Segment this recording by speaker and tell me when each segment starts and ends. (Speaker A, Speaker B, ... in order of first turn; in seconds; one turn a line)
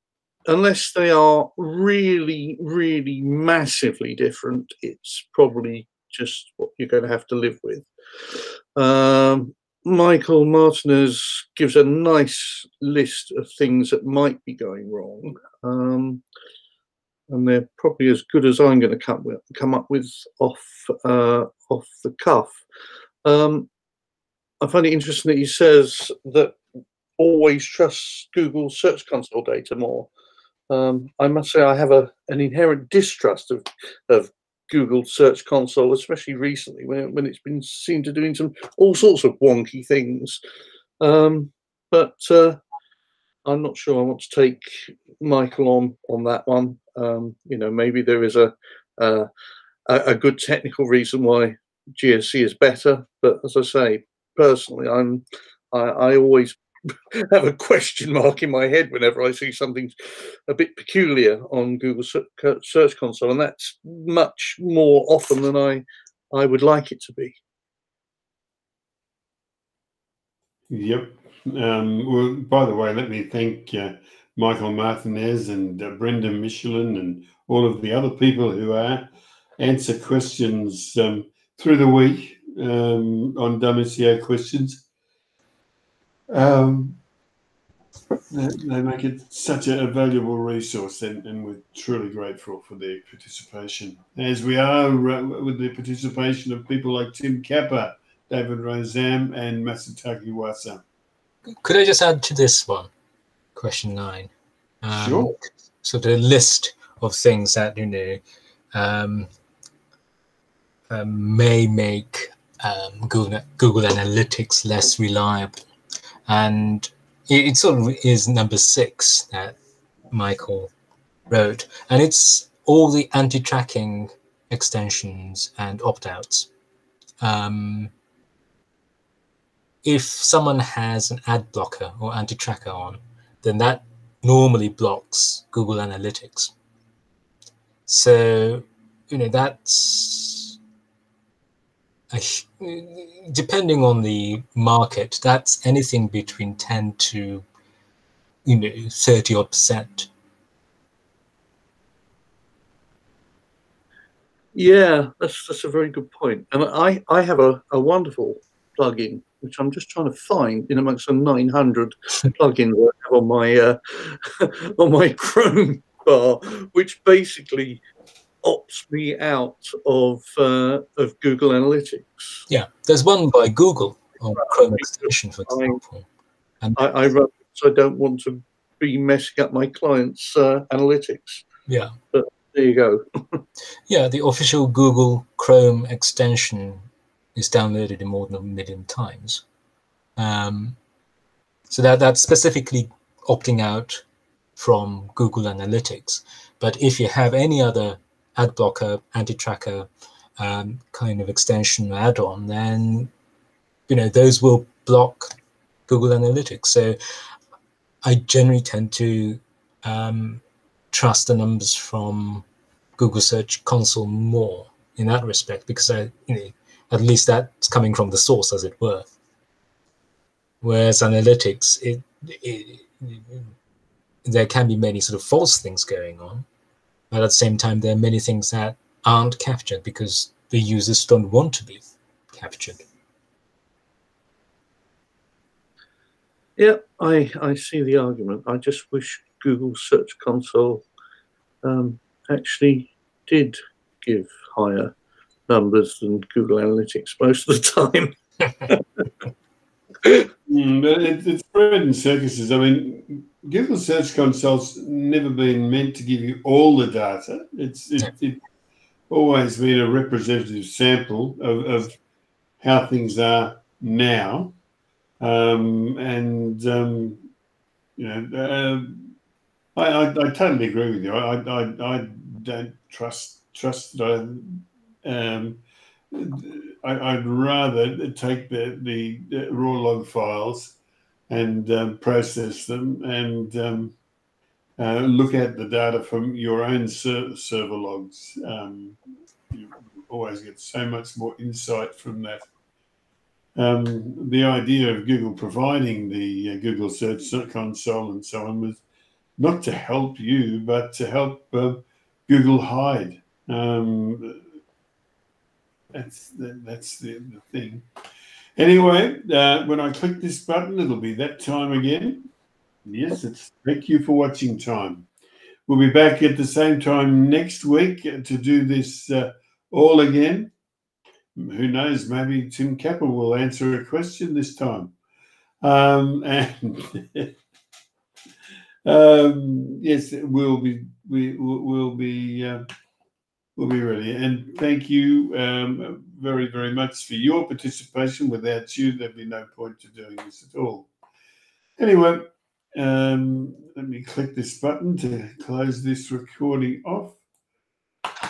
Speaker A: 0.5-16.2
Speaker A: 17.3-22.6
Speaker A: 23.2-23.7
Speaker A: 24.6-26.6
Speaker A: 27.2-30.1
Speaker A: 30.7-40.4
Speaker A: 41.0-42.6
Speaker A: 43.4-49.3
Speaker A: 49.9-56.6
Speaker A: 57.1-67.3
Speaker B: 70.7-84.8
Speaker B: 86.3-87.0
Speaker B: 88.3-100.8
Speaker C: 101.5-102.9
Speaker C: 103.5-104.3
Speaker C: 104.8-108.2
Speaker B: 104.9-105.3
Speaker C: 108.7-109.3
Speaker C: 110.9-115.6
Speaker C: 116.3-119.5
Speaker C: 120.1-120.7
Speaker C: 121.3-126.5
Speaker C: 127.2-127.9
Speaker C: 129.8-136.5
Speaker C: 137.9-140.6
Speaker C: 142.1-147.4
Speaker C: 148.4-150.1
Speaker A: 154.5-167.8
Speaker A: 168.4-172.4
Speaker C: 172.5-176.0
Speaker A: 174.4-175.8
Speaker C: 176.6-176.9
Speaker A: 176.8-181.4
Speaker C: 181.7-181.9
Speaker A: 182.1-183.4
Speaker C: 183.9-189.4
Speaker C: 190.2-190.8
Speaker C: 191.7-194.0
Speaker C: 194.6-203.1
Speaker C: 203.9-205.3
Speaker C: 205.9-207.0
Speaker C: 208.0-212.4
Speaker C: 213.0-219.1
Speaker C: 220.6-223.5
Speaker C: 224.2-226.4
Speaker C: 227.1-232.8
Speaker A: 236.6-240.8
Speaker A: 241.6-244.9
Speaker A: 245.5-248.1
Speaker A: 248.7-249.1
Speaker B: 250.5-258.4
Speaker B: 259.1-261.9
Speaker B: 262.6-264.5
Speaker B: 265.2-267.3
Speaker B: 268.0-269.1
Speaker B: 269.8-280.8
Speaker B: 281.3-283.9
Speaker B: 284.8-288.9
Speaker B: 289.5-292.5
Speaker B: 293.6-298.8
Speaker B: 299.4-304.4
Speaker B: 305.9-307.8
Speaker B: 308.6-312.3
Speaker B: 312.9-315.1
Speaker B: 315.7-320.5
Speaker B: 321.4-324.9
Speaker B: 325.6-327.3
Speaker B: 328.8-332.6
Speaker B: 333.6-340.9
Speaker B: 341.8-347.2